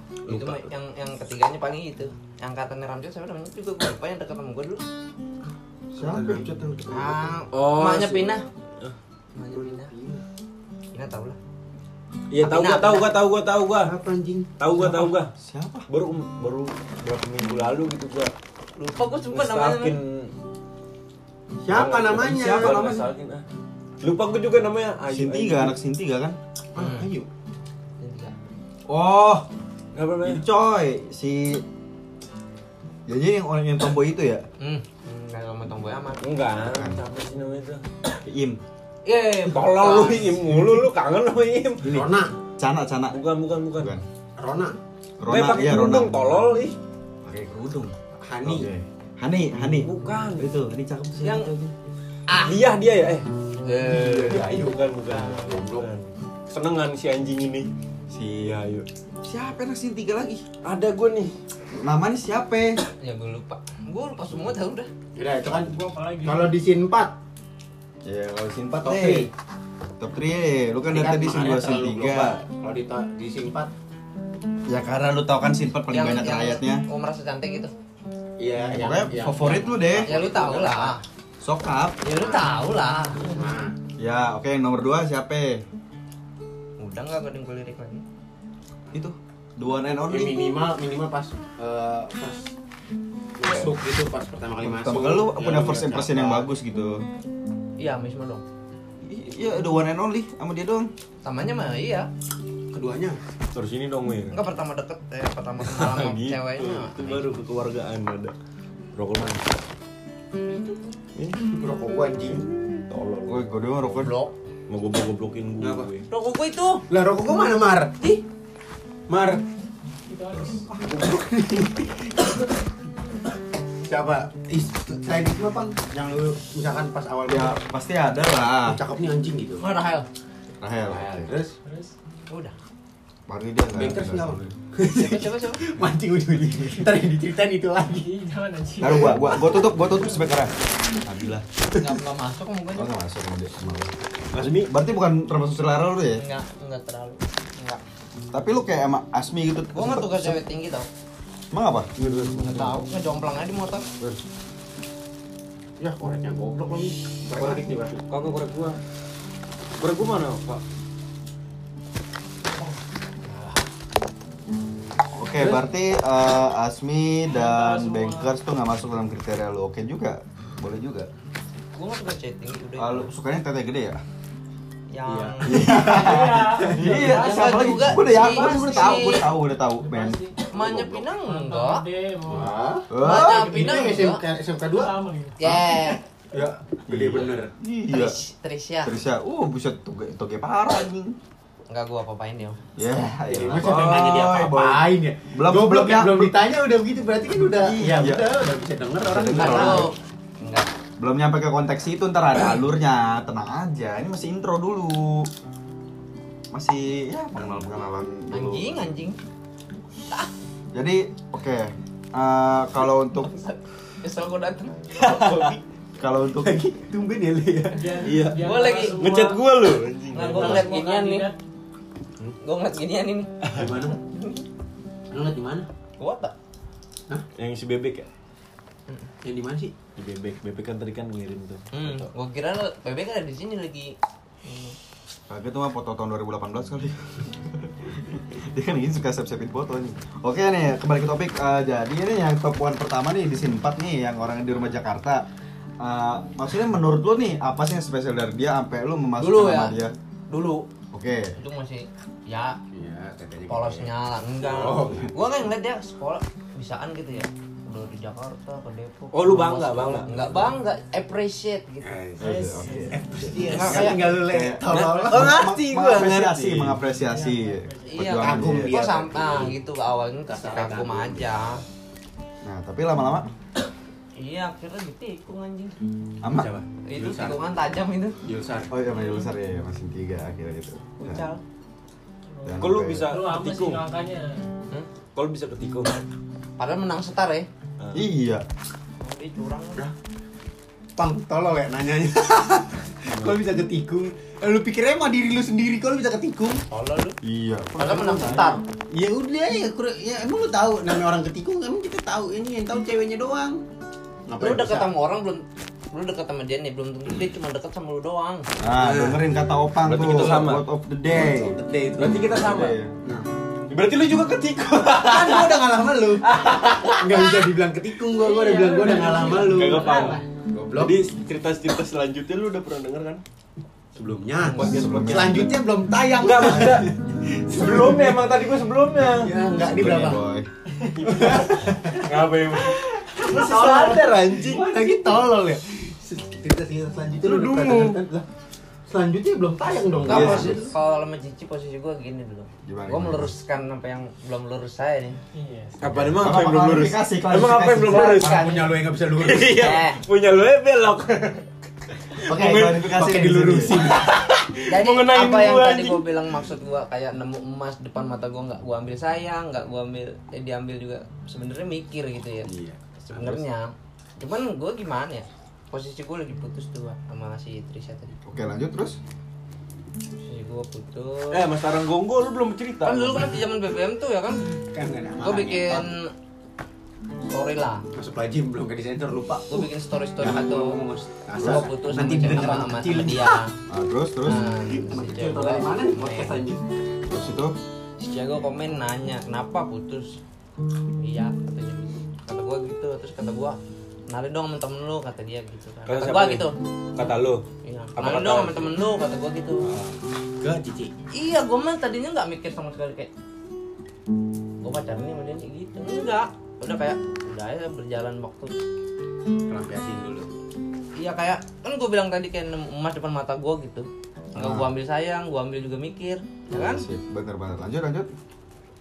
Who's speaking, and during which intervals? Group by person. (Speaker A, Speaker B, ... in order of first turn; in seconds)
Speaker A: 0.3-0.6, 7.5-9.0, 12.3-13.9, 14.6-15.3, 15.9-18.3, 19.3-20.3, 21.7-23.4, 24.0-25.7, 29.9-30.4, 36.2-37.8, 39.5-42.0, 43.1-44.0, 45.3-46.8, 49.6-50.6, 52.3-53.3, 54.4-57.7, 58.4-58.9, 60.6-61.3, 103.5-104.4, 105.6-108.3, 109.0-109.5, 112.4-113.5, 114.7-116.1, 144.3-144.7, 152.0-152.8, 158.1-158.8, 159.8-160.6, 215.0-215.5, 218.0-220.7, 227.4-228.1, 230.0-232.1, 259.1-260.4, 263.5-263.9, 264.7-266.8, 282.6-283.8, 285.1-286.0, 309.8-310.7, 312.0-312.8, 313.7-315.6, 316.2-317.0, 319.4-320.2, 320.8-323.2, 324.5-325.0, 326.2-326.9, 327.5-329.3, 330.8-334.7, 337.2-338.0, 345.8-348.6, 349.2-356.0, 371.3-373.4, 395.9-397.4, 398.0-398.8, 399.7-399.9
Speaker B: 0.3-0.6, 6.0-7.3, 15.4-15.9, 22.2-23.1, 25.1-26.4, 28.9-29.5, 30.2-31.6, 33.1-34.4, 36.6-37.0, 38.2-38.6, 41.8-43.2, 43.8-44.0, 45.2-46.5, 47.2-51.7, 58.1-58.5, 59.2-60.5, 61.7-62.8, 68.0-69.3, 70.0-72.4, 74.7-76.8, 78.6-80.1, 81.4-82.0, 84.0-85.6, 88.9-90.5, 94.6-97.0, 99.0-100.9, 113.2-114.2, 127.3-128.8, 130.6-131.3, 133.3-134.4, 138.8-141.5, 142.8-146.2, 148.3-150.4, 151.5-151.9, 165.1-171.1, 172.8-174.0, 175.4-180.8, 182.9-183.7, 186.9-188.2, 188.8-191.2, 192.8-196.3, 197.6-198.2, 199.0-199.9, 201.0-205.3, 206.5-208.8, 210.7-213.3, 216.0-216.6, 235.3-245.2, 245.8-249.9, 250.9-251.3, 262.2-268.8, 272.4-273.3, 276.2-276.5, 278.7-281.3, 282.4-283.1, 287.9-288.4, 297.2-298.6, 308.6-311.6, 312.4-313.0, 324.5-325.5, 329.6-330.5, 340.0-340.7, 342.6-343.3, 345.8-348.4, 352.2-353.8, 368.2-369.0, 383.7-384.5, 387.1-387.6, 414.4-414.7, 416.5-418.1
Speaker C: 0.3-4.8, 6.9-8.4, 9.3-9.9, 10.9-11.4, 12.4-13.1, 18.8-20.0, 26.8-27.1, 28.0-28.4, 34.6-36.3, 39.0-40.5, 51.2-51.5, 52.3-52.6, 53.6-54.4, 63.0-64.9, 75.9-77.7, 80.0-81.0, 82.0-83.3, 86.8-88.0, 97.8-98.4, 101.2-102.1, 104.3-107.3, 114.0-114.3, 116.1-116.8, 129.6-130.1, 132.3-132.6, 134.9-135.6, 141.7-142.9, 146.2-147.8, 149.7-150.9, 152.4-153.8, 171.8-173.1, 174.9-175.8, 177.1-179.3, 180.5-181.8, 183.0-184.2, 185.4-186.0, 187.9-188.9, 191.7-192.6, 199.3-200.7, 208.3-209.2, 213.2-215.5, 218.4-219.1, 220.1-221.3, 222.4-223.3, 223.8-224.4, 226.0-226.3, 231.7-234.8, 249.2-249.8, 250.3-250.7, 251.4-252.6, 253.5-261.9, 263.4-264.1, 267.9-271.6, 274.2-275.8, 276.9-278.2, 281.0-281.4, 286.6-287.5, 289.0-289.9, 296.7-297.2, 297.8-298.6, 304.4-308.5, 340.1-345.2, 349.6-350.0, 354.7-362.5, 363.0-368.1, 370.2-371.5, 372.8-374.6, 375.2-376.1, 377.3-377.8, 379.5-380.8, 381.4-383.5, 384.2-386.4, 388.0-390.2, 391.0-393.6, 394.1-396.6, 397.6-399.7, 401.1-403.1, 404.6-408.5, 411.0-416.8
Speaker D: 5.9-7.0, 9.5-10.2, 13.8-14.5, 21.6-22.8, 26.7-27.3, 41.9-42.3, 44.4-44.8, 48.2-48.7, 53.8-55.9, 65.2-67.2, 68.8-69.3, 70.9-73.7, 78.4-81.0, 82.0-83.8, 90.1-92.5, 93.4-96.5, 102.7-103.2, 111.5-112.5, 115.6-115.9, 116.9-118.0, 119.1-119.4, 120.6-122.4, 123.9-127.6, 128.6-129.7, 130.9-131.6, 133.7-138.1, 155.8-158.0, 163.2-163.6, 165.4-165.6, 175.1-177.1, 182.3-184.9, 186.3-187.5, 193.3-199.9, 216.4-218.1, 223.5-224.0, 225.1-225.7, 229.2-229.7, 252.7-255.1, 261.8-265.5, 268.1-269.6, 270.3-271.6, 276.3-277.4, 278.2-278.7, 291.0-296.6, 298.9-303.6, 304.3-304.9, 308.7-309.2, 311.1-312.4, 315.0-321.0, 324.0-328.3, 329.1-330.2, 331.0-332.1, 332.6-338.3, 338.9-340.7, 347.9-349.7, 352.3-354.1, 362.4-363.4, 374.7-375.9, 377.9-383.4, 384.7-386.7, 400.4-400.9, 409.5-410.3
Speaker E: 65.6-66.5, 120.1-120.7, 131.6-131.9, 137.9-140.0, 167.3-168.3, 175.7-179.2, 179.8-180.5, 181.2-182.6, 183.2-184.0, 184.7-185.5, 217.7-219.4, 220.3-221.4, 267.1-268.1, 282.3-284.4, 318.1-320.2, 345.3-345.8